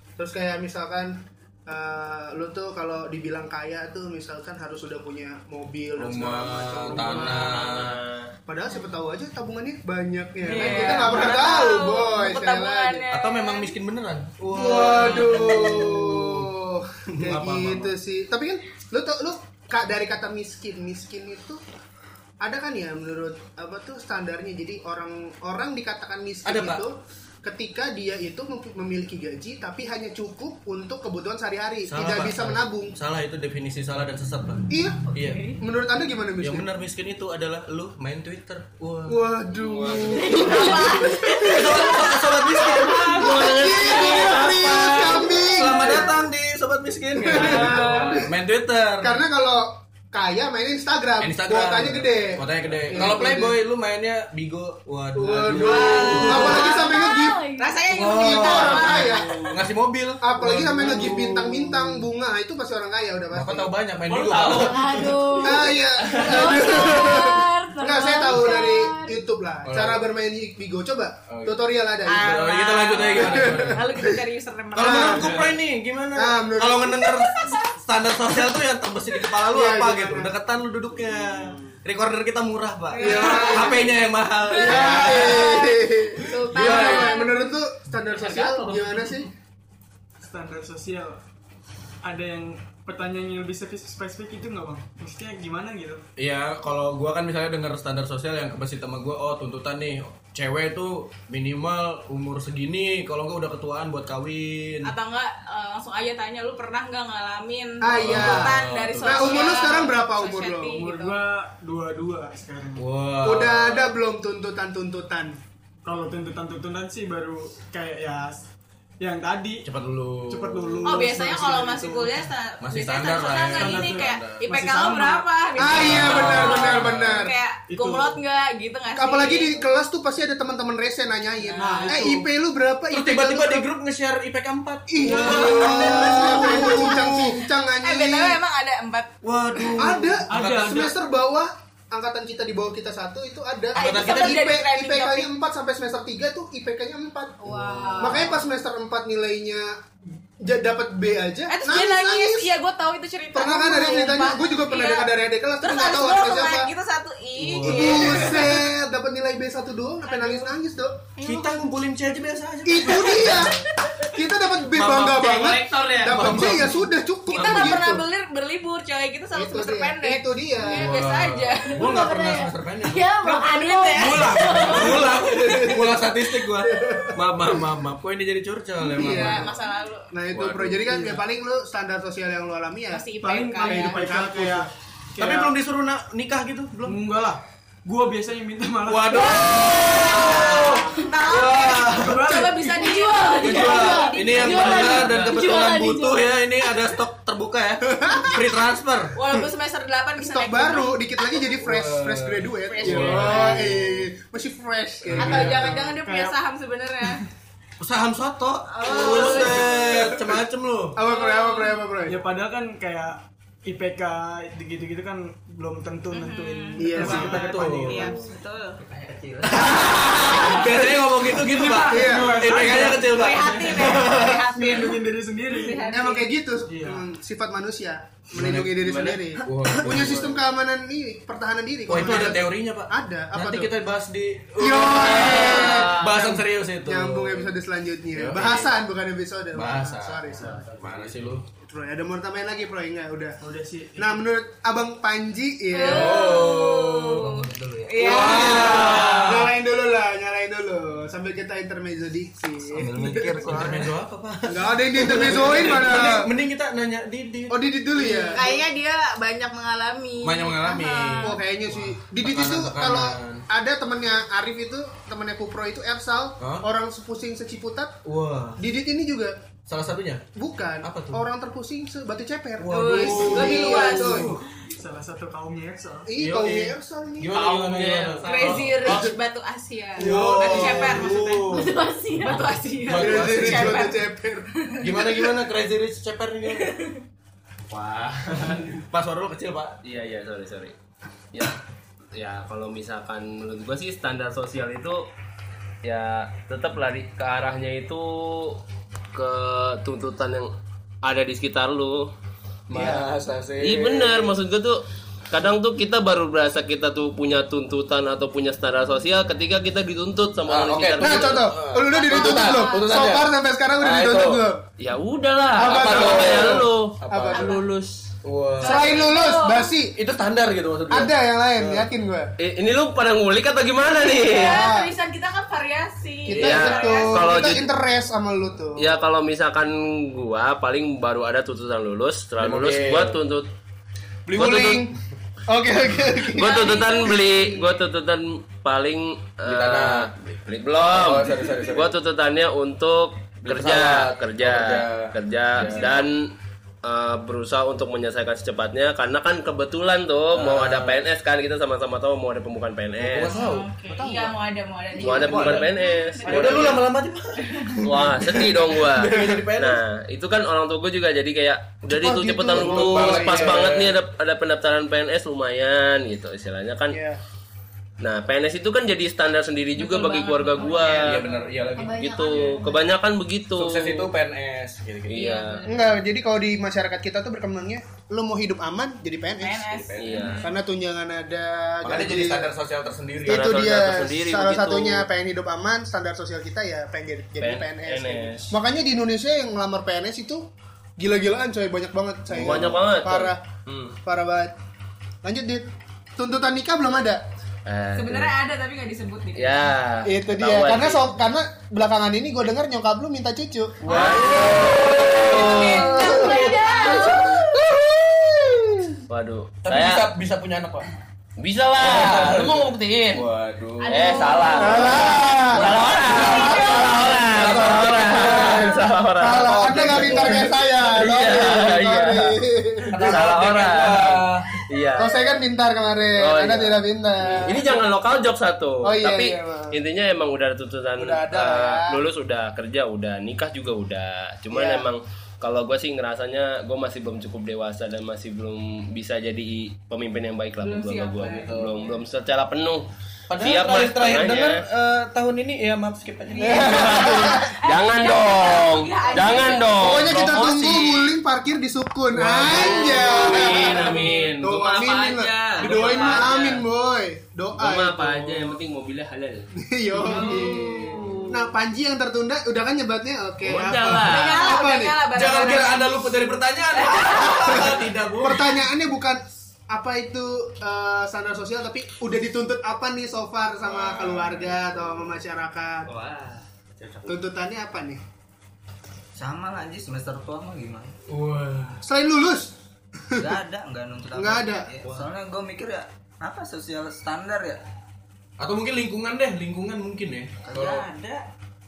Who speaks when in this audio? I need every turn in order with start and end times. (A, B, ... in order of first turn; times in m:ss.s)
0:00.2-0:07.9 A
0:06.0-0:08.0 B
0:06.9-0:08.3 C
0:08.5-0:13.0 A
0:10.5-0:13.8 D
0:10.6-0:11.3 B
0:13.1-0:16.5 B
0:14.4-0:21.6 A
0:14.8-0:15.3 D
0:17.1-0:17.9 B
0:22.4-0:33.0 A
0:26.4-0:26.8 B
0:31.9-0:35.5 B
0:34.7-0:36.7 A
0:35.2-0:35.6 D
0:36.4-0:39.2 B
0:39.1-0:41.9 A
0:39.6-0:40.8 C
0:40.3-0:41.6 E
0:40.4-0:43.2 D
0:41.4-0:49.2 B
0:42.7-0:45.2 C
0:42.9-0:46.2 A
0:47.2-0:48.3 A
0:47.4-0:48.2 C
0:47.5-0:48.2 D
0:49.0-0:53.6 A
0:51.2-0:56.7 B
0:55.1-0:57.4 A
0:55.6-0:56.9 D
0:56.0-0:57.8 E
0:57.6-0:59.6 D
0:57.9-1:02.1 B
0:58.0-0:59.4 A
1:00.2-1:03.8 A
1:03.3-1:05.3 B
1:04.1-1:04.8 C
1:04.4-1:09.2 E
1:05.4-1:14.2 A
1:06.0-1:06.4 C
1:09.6-1:10.0 B
1:11.3-1:11.6 B
1:12.1-1:15.5 D
1:12.1-1:14.1 B
1:14.8-1:25.7 B
1:14.8-1:15.3 A
1:16.2-1:17.2 A
1:19.5-1:20.3 A
1:22.9-1:27.4 D
1:23.0-1:23.9 A
1:24.5-1:29.3 A
1:26.2-1:27.2 B
1:28.2-1:28.8 D
1:30.2-1:31.2 F
1:32.0-1:36.0 F
1:36.2-1:44.9 B
1:44.8-1:51.2 D
1:47.8-1:50.8 A
1:47.9-1:49.5 B
1:50.7-1:52.9 F
1:52.8-1:53.9 B
1:53.2-1:55.4 A
1:55.8-1:58.4 F
1:59.0-1:59.7 F
1:59.6-2:01.0 B
2:00.3-2:02.2 F
2:00.8-2:09.6 D
2:02.6-2:04.4 B
2:03.5-2:05.3 F
2:05.6-2:07.4 A
2:05.7-2:07.3 B
2:07.7-2:08.2 F
2:08.9-2:13.7 A
2:11.4-2:12.1 D
2:11.6-2:12.3 F
2:12.9-2:17.4 B
2:14.9-2:18.4 A
2:15.1-2:15.9 F
2:15.1-2:19.8 D
2:19.2-2:20.9 B
2:19.8-2:29.8 A
2:20.3-2:20.9 F
2:23.8-2:25.3 D
2:23.8-2:24.5 B
2:27.4-2:28.4 D
2:27.5-2:28.3 B
2:30.4-2:32.5 A
2:31.5-2:38.6 D
2:33.3-2:36.7 A
2:37.4-2:38.6 B
2:37.6-2:41.0 A
2:40.0-2:40.5 D
2:41.2-2:41.8 D
2:41.2-2:43.5 B
2:42.6-2:43.6 A
2:43.8-2:44.1 D
2:44.1-2:48.0 A
2:44.7-2:46.8 B
2:45.3-2:46.2 C
2:47.3-2:51.8 D
2:47.4-2:47.7 B
2:49.3-2:51.0 A
2:50.7-2:53.1 B
2:51.7-2:55.3 E
2:53.2-2:55.1 D
2:54.0-2:59.6 B
2:55.2-2:57.6 A
2:58.8-3:00.1 D
2:58.9-2:59.6 A
3:00.1-3:03.1 A
3:00.3-3:01.2 B
3:02.9-3:04.1 D
3:03.2-3:05.6 F
3:03.6-3:04.7 A
3:05.2-3:07.0 B
3:06.8-3:10.8 F
3:08.8-3:12.4 B
3:09.4-3:15.2 D
3:11.9-3:12.9 F
3:12.6-3:16.7 E
3:13.4-3:19.2 B
3:14.9-3:15.2 C
3:17.9-3:18.5 A
3:19.1-3:21.0 D
3:20.2-3:25.8 A
3:21.5-3:24.1 B
3:22.6-3:23.6 D
3:25.0-3:25.8 B
3:25.2-3:27.2 D
3:25.8-3:26.4 F
3:27.8-3:31.0 B
3:28.7-3:30.1 D
3:28.8-3:30.4 A
3:31.0-3:32.2 A
3:31.0-3:31.8 D
3:32.0-3:38.2 F
3:36.1-3:38.8 D
3:36.8-3:37.4 A
3:37.0-3:38.1 B
3:38.8-3:40.4 G
3:39.5-3:44.4 B
3:40.2-3:40.7 D
3:41.3-3:45.9 F
3:41.9-3:42.5 A
3:43.0-3:46.3 D
3:45.8-3:53.7 A
3:46.6-3:47.0 F
3:48.3-3:48.8 B
3:48.8-3:49.2 C
3:49.4-3:50.4 B
3:51.9-3:57.5 B
3:54.6-4:00.7 A
3:55.0-3:56.3 C
3:58.1-3:58.8 B
3:59.5-4:01.4 B
4:01.6-4:03.4 A
4:03.4-4:04.2 F
4:04.0-4:06.4 A
4:05.7-4:09.2 D
4:05.8-4:07.4 B
4:07.2-4:09.1 G
4:08.0-4:09.5 B
4:08.0-4:13.6 A
4:12.7-4:14.0 G
4:12.9-4:17.6 B
4:14.5-4:16.2 A
4:17.5-4:18.6 A
4:18.0-4:21.4 D
4:20.2-4:23.4 B
4:21.2-4:28.0 A
4:26.4-4:26.6 B
4:28.0-4:28.6 B
4:28.6-4:29.4 A
4:29.7-4:30.2 B
4:30.4-4:34.4 A
4:30.8-4:31.2 B
4:32.6-4:34.4 B
4:32.7-4:34.3 D
4:34.7-4:36.1 F
4:36.1-4:37.4 A
4:36.2-4:39.1 B
4:37.3-4:38.7 C
4:38.2-4:41.6 D
4:38.9-4:39.1 A
4:40.0-4:41.8 B
4:40.1-4:40.4 F
4:40.3-4:40.7 A
4:41.5-4:42.6 E
4:42.2-4:45.4 D
4:42.9-4:43.9 B
4:42.9-4:44.5 A
4:44.8-4:46.7 B
4:46.5-4:47.0 D
4:47.7-4:48.8 C
4:48.4-4:49.8 B
4:49.8-4:50.7 C
4:52.1-4:55.0 C
4:55.8-4:58.6 C
4:59.1-5:00.5 C
5:01.0-5:02.1 C
5:02.7-5:04.4 B
5:02.7-5:03.1 A
5:03.6-5:11.5 C
5:10.5-5:13.3 B
5:11.0-5:14.6 A
5:11.9-5:13.0 D
5:13.8-5:14.4 B
5:14.8-5:18.1 C
5:15.6-5:17.6 A
5:15.6-5:17.4 B
5:17.4-5:17.6 D
5:18.2-5:19.0 B
5:18.6-5:19.8 D
5:18.6-5:20.0 A
5:20.0-5:21.9 B
5:20.9-5:22.3 A
5:22.4-5:24.7 C
5:24.0-5:27.4 D
5:24.3-5:24.9 A
5:26.2-5:29.0 A
5:26.3-5:26.7 B
5:26.4-5:27.7 C
5:28.8-5:33.5 C
5:32.4-5:33.2 B
5:34.3-5:34.9 A
5:34.3-5:34.9 C
5:35.5-5:37.4 A
5:36.3-5:46.3 C
5:36.5-5:37.4 D
5:39.4-5:42.0 B
5:43.4-5:46.0 B
5:45.6-5:46.0 D
5:46.8-5:53.4 C
5:50.3-5:51.0 B
5:53.0-5:54.3 B
5:53.2-5:57.8 D
5:55.0-5:56.8 C
5:55.0-5:55.7 B
5:56.2-5:59.8 B
5:57.8-6:07.0 C
6:01.9-6:03.7 A
6:02.4-6:04.0 B
6:06.9-6:07.2 A
6:08.0-6:11.2 C
6:09.8-6:11.5 D
6:10.8-6:12.4 B
6:11.6-6:12.9 E
6:12.0-6:14.1 C
6:13.5-6:15.3 B
6:15.1-6:15.6 C
6:15.1-6:16.0 D
6:15.6-6:19.7 A
6:19.4-6:20.6 D
6:19.7-6:20.3 B
6:20.0-6:20.4 C
6:20.4-6:22.5 A
6:21.8-6:23.6 B
6:23.2-6:30.5 A
6:23.3-6:25.0 C
6:27.4-6:28.5 C
6:31.0-6:33.4 A
6:32.3-6:34.0 C
6:34.0-6:34.5 A
6:35.2-6:37.2 A
6:37.6-6:38.3 C
6:38.0-6:39.7 D
6:39.4-6:41.1 C
6:40.0-6:43.9 A
6:43.8-6:46.5 B
6:43.9-6:45.9 C
6:43.9-6:44.5 D
6:45.2-6:47.3 D
6:45.6-6:49.0 A
6:46.0-6:47.0 E
6:49.1-6:50.1 C
6:49.6-6:50.9 B
6:51.4-6:53.2 C
6:51.8-6:58.8 B
6:53.8-6:55.1 D
6:53.9-7:02.3 C
6:54.6-6:55.7 A
6:56.1-6:57.1 D
6:57.1-7:03.2 A
6:59.4-7:00.4 B
7:02.9-7:04.5 B
7:03.0-7:05.3 C
7:05.0-7:07.8 A
7:06.2-7:24.6 C
7:08.8-7:09.8 A
7:11.0-7:12.0 A
7:14.5-7:14.9 A
7:20.6-7:21.6 D
7:21.3-7:21.9 B
7:23.3-7:27.3 B
7:26.3-7:29.8 D
7:26.4-7:31.1 C
7:27.0-7:27.4 A
7:29.8-7:38.6 A
7:32.1-7:33.3 B
7:32.4-7:36.6 C
7:32.6-7:34.3 D
7:35.6-7:36.2 D
7:37.6-7:39.5 C
7:39.6-7:45.0 A
7:40.0-7:41.5 D
7:40.0-7:41.3 C
7:43.4-7:44.4 C
7:44.0-7:46.2 D
7:45.1-7:48.6 B
7:46.7-7:47.8 D
7:47.3-7:55.9 A
7:53.6-7:55.1 B
7:55.9-7:57.2 C
7:57.1-7:58.0 A
7:59.1-8:01.0 G
8:01.1-8:01.8 B
8:01.8-8:02.6 A
8:03.1-8:03.4 A
8:03.2-8:07.6 G
8:04.1-8:04.7 A
8:08.4-8:10.9 B
8:10.4-8:11.2 G